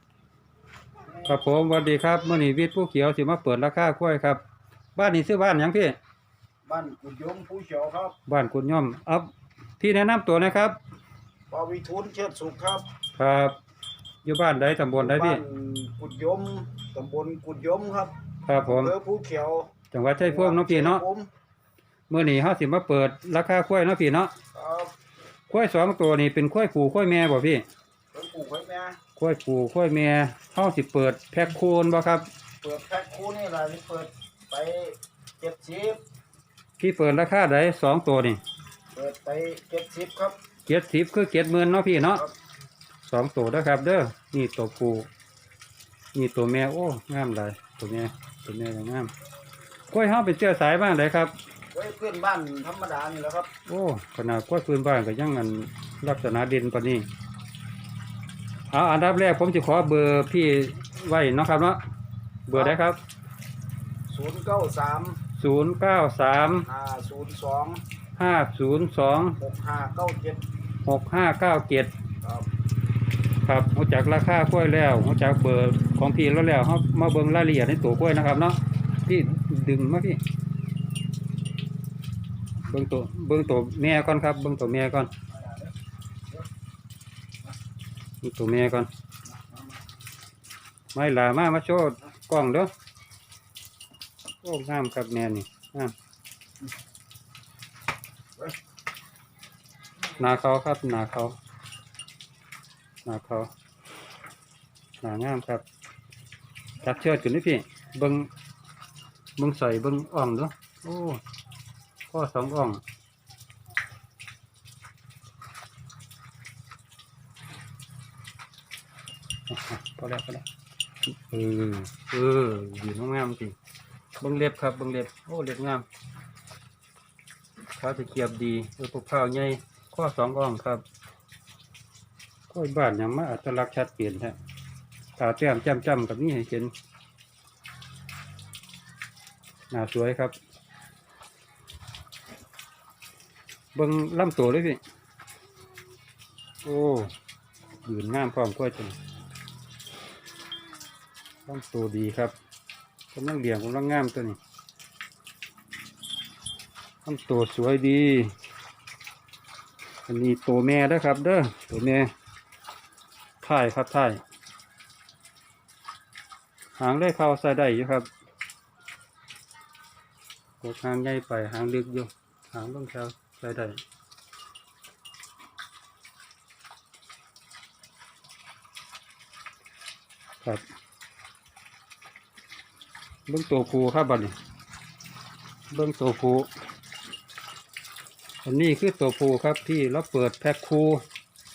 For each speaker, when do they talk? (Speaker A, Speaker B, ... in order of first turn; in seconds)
Speaker A: 1.2-4.4, 5.0-6.0, 8.3-10.8, 13.2-13.6, 14.2-15.4, 18.4-18.9, 19.9-21.0, 22.1-24.3, 25.5-27.6, 29.2-32.3, 36.8-38.4, 40.7-42.2, 43.1-45.1, 46.1-49.1, 49.9-51.3, 53.7-57.1, 58.7-61.8, 62.5-63.0, 65.4-66.7, 68.2-69.4, 70.8-71.9, 73.4-80.2, 82.7-85.1, 88.2-88.9, 90.9-92.7, 94.4-95.9, 100.2-101.3, 103.0-103.5, 105.0-105.6, 106.8-108.3, 109.4-111.2, 112.1-112.8, 119.5-120.4, 121.1-123.5, 124.2-125.8, 127.8-130.8, 132.5-134.3, 135.2-136.7, 139.7-140.3, 143.7-144.8, 146.6-147.1, 147.8-149.0, 151.5-152.3, 153.1-154.4, 157.0-158.3, 160.1-162.1, 163.4-164.2, 166.8-168.1, 170.6-173.8, 183.3-184.3, 185.7-186.5, 188.4-191.0
Speaker B: 6.6-8.2, 11.5-12.8, 15.0-18.1, 18.6-21.3, 24.5-24.9, 28.1-29.0, 32.6-36.0, 38.9-40.4, 51.7-53.5, 62.5-62.8, 64.1-65.2, 66.7-67.8, 69.4-70.4